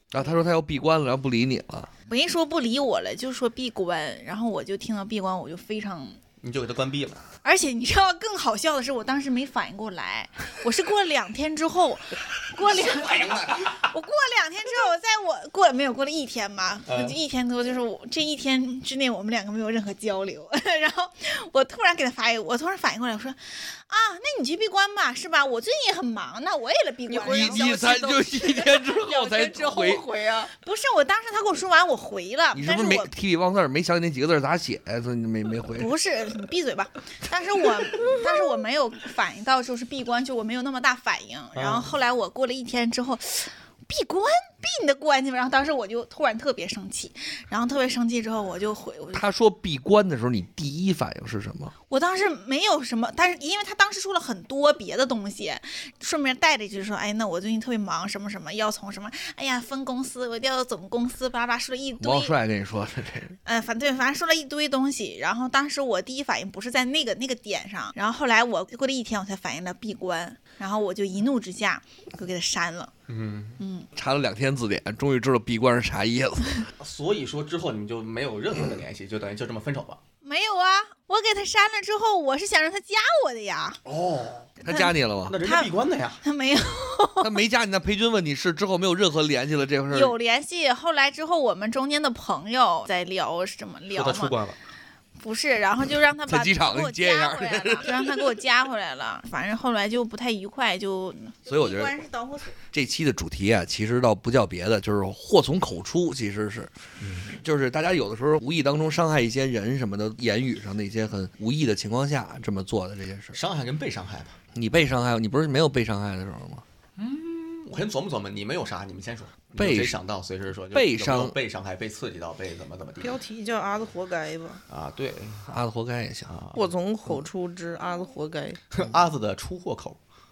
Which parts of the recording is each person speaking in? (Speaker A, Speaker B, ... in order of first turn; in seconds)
Speaker A: 0.1-1.9, 27.3-30.1, 32.5-35.9, 49.1-51.7, 62.0-63.4, 74.0-76.7, 84.6-85.4, 87.2-90.1, 96.3-98.2, 101.5-102.0, 102.7-106.7, 107.3-113.4, 114.5-116.6, 119.6-120.0, 120.7-121.4, 125.5-126.3
Speaker B: 2.1-6.2, 7.4-28.0, 30.6-33.1, 35.7-49.2, 51.9-62.3, 63.5-72.9, 73.6-73.9, 80.2-83.8, 84.6-85.7, 86.2-87.4, 89.9-94.3, 95.2-102.6
Speaker C: 6.4-7.2, 12.6-13.9, 16.9-17.2, 41.5-41.9, 73.1-73.6, 76.8-80.0, 83.8-84.5, 85.3-86.2, 93.9-94.6, 107.0-107.4, 113.3-114.4, 117.0-123.2, 124.7-125.5, 126.3-126.7, 128.7-130.0
Speaker D: 27.1-30.5, 123.0-124.6, 126.5-128.6